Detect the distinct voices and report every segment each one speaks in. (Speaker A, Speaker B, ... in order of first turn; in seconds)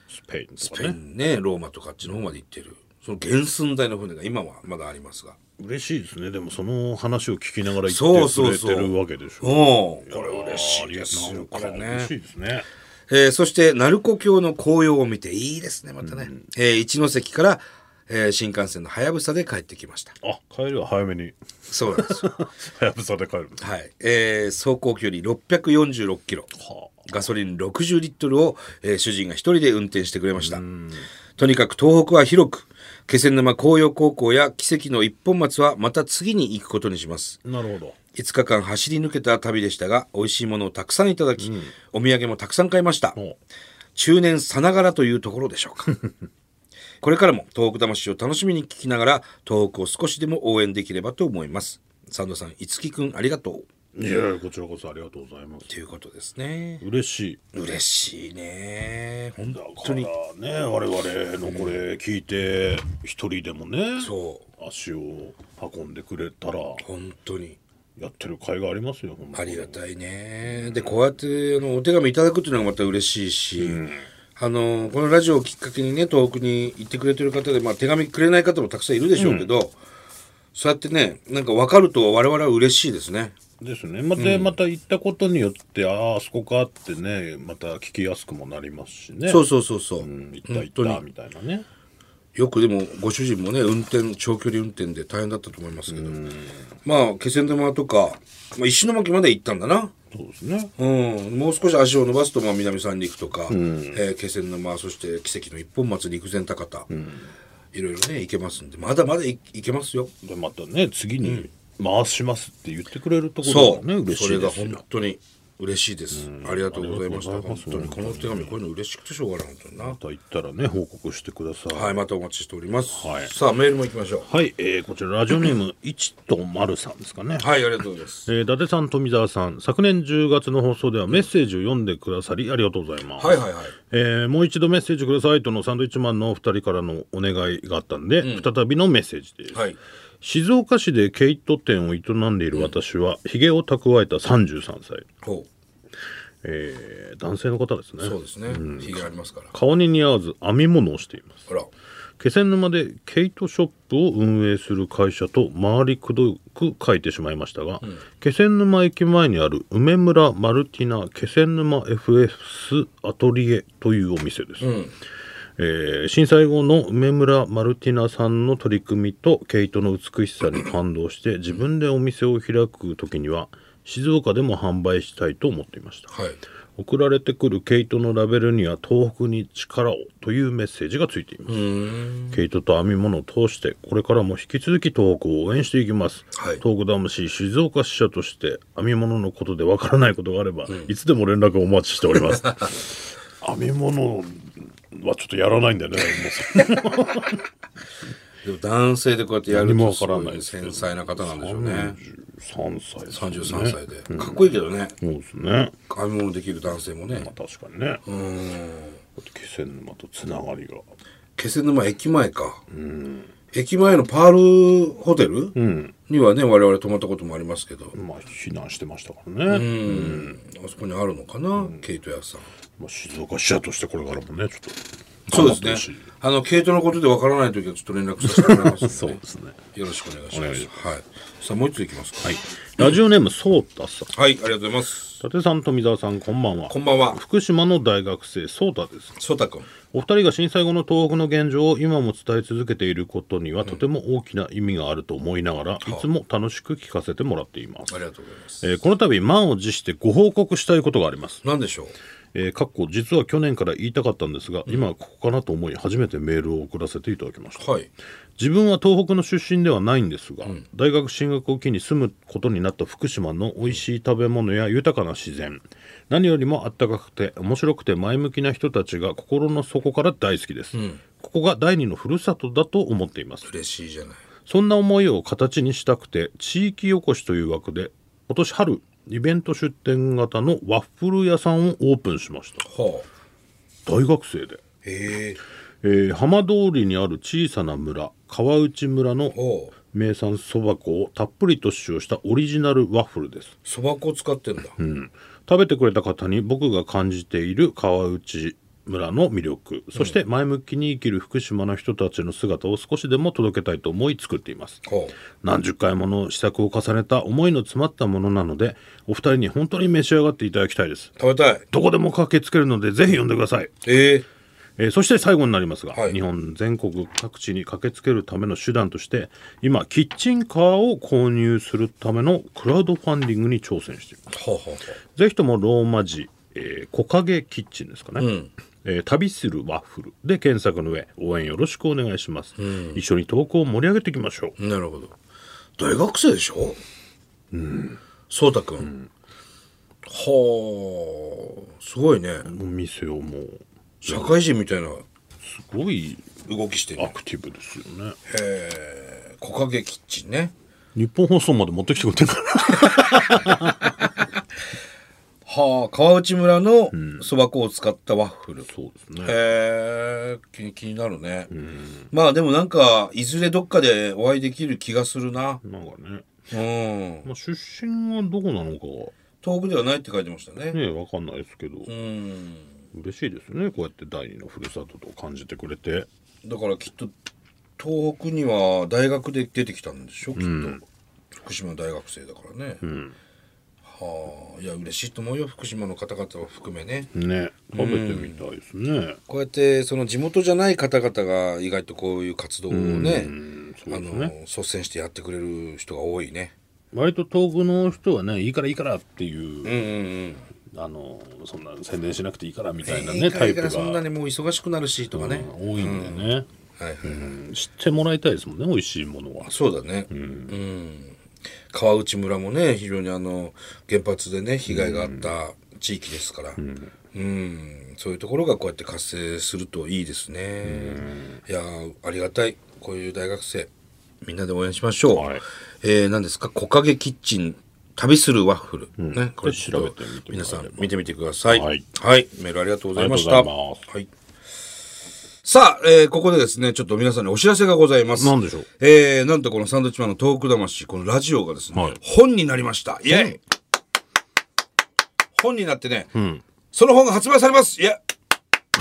Speaker A: 0.1-0.9, 5.6-12.7, 16.0-16.4, 20.2-23.7, 26.6-27.1, 30.4-31.1, 37.4-38.0, 41.4-41.7, 53.9-55.7, 56.8-57.4, 59.5-66.8, 68.0-69.8, 70.5-71.0, 73.6-74.0, 79.1-79.5, 83.6-89.5, 90.0-91.6, 95.9-96.6, 100.1-100.7, 103.5-104.0, 106.9-107.3, 110.2-114.8, 116.1-118.6, 119.8-122.0, 122.9-123.3, 124.2-127.7, 128.2-139.7, 140.2-145.1, 146.4-151.5, 152.2-164.7, 165.6-176.1, 176.8-181.7, 182.3-192.9, 193.4-197.5, 199.5-205.7, 207.1-208.0, 209.2-210.8, 212.7-213.3, 215.6-215.9, 217.9-220.4, 222.8-226.1, 228.2-229.6, 230.3-230.8, 232.2-234.1, 235.2-239.2, 239.9-248.0, 248.6-251.4, 252.3-257.7, 258.4-273.5, 274.5-282.6, 283.9-284.6, 285.8-289.4, 289.9-293.5, 294.8-304.8, 305.4-311.1, 311.7-313.8, 314.8-324.3, 325.2-328.3, 328.8-334.6, 337.5-338.0, 338.8-339.1, 342.4-344.4, 345.4-346.3, 346.9-348.2, 350.9-354.1, 356.9-357.3, 358.7-359.4, 361.5-362.1, 365.6-366.2, 367.2-369.1, 370.7-371.9, 372.9-376.1, 380.4-380.8, 382.8-383.1, 387.1-389.2, 392.7-394.3, 396.9-399.8, 400.7-404.0, 405.1-406.5, 407.0-409.5, 410.1-410.6, 414.7-415.3, 416.6-416.9, 420.6-421.4, 425.1-425.4, 429.0-430.9, 431.5-431.8, 432.9-433.9, 438.2-438.7, 441.7-442.0, 443.1-443.4, 446.1-446.4
Speaker B: 0.6-5.4, 7.8-12.1, 13.1-20.1, 21.7-22.3, 23.6-26.5, 27.1-30.6, 31.4-37.4, 38.1-43.2, 44.0-46.0, 47.0-53.6, 55.7-56.8, 57.5-60.1, 61.5-61.8, 64.0-64.5, 66.8-67.6, 69.3-73.8, 74.4-79.8, 80.5-83.4, 84.2-84.5, 89.2-91.0, 92.4-96.2, 96.8-99.9, 100.8-106.9, 107.7-110.1, 111.2-111.5, 113.4-120.0, 121.7-124.3, 127.4-128.3, 133.2-133.8, 138.2-138.5, 145.2-145.5, 148.0-149.5, 164.6-164.9, 176.1-176.4, 181.5-182.4, 186.4-186.6, 190.7-190.9, 192.4-192.7, 198.4-202.0, 203.1-204.9, 205.9-207.3, 208.0-209.0, 211.4-212.6, 213.5-215.6, 216.1-217.9, 219.4-222.5, 225.3-229.2, 229.7-232.9, 234.1-235.2, 236.7-237.2, 239.2-239.7, 247.9-248.7, 251.4-251.9, 257.6-257.9, 270.7-271.0, 273.4-274.2, 282.6-283.1, 284.8-285.4, 289.3-289.7, 293.6-294.7, 304.8-305.2, 311.2-311.7, 313.8-314.3, 315.9-316.2, 324.3-325.0, 328.2-328.5, 332.6-333.0, 334.6-335.1, 335.8-336.8, 338.3-338.9, 340.0-342.5, 344.0-345.1, 346.5-347.1, 348.3-350.5, 355.4-358.7, 359.2-361.5, 362.1-365.6, 366.5-367.3, 369.4-370.8, 371.9-372.7, 376.4-377.1, 377.8-380.8, 381.4-382.8, 383.9-387.1, 387.7-388.4, 389.3-393.3, 393.9-396.5, 399.6-400.5, 402.8-407.3, 409.4-411.2, 411.7-416.6, 417.1-423.7, 424.2-434.1, 435.4-443.4, 445.4-446.1, 446.7-448.0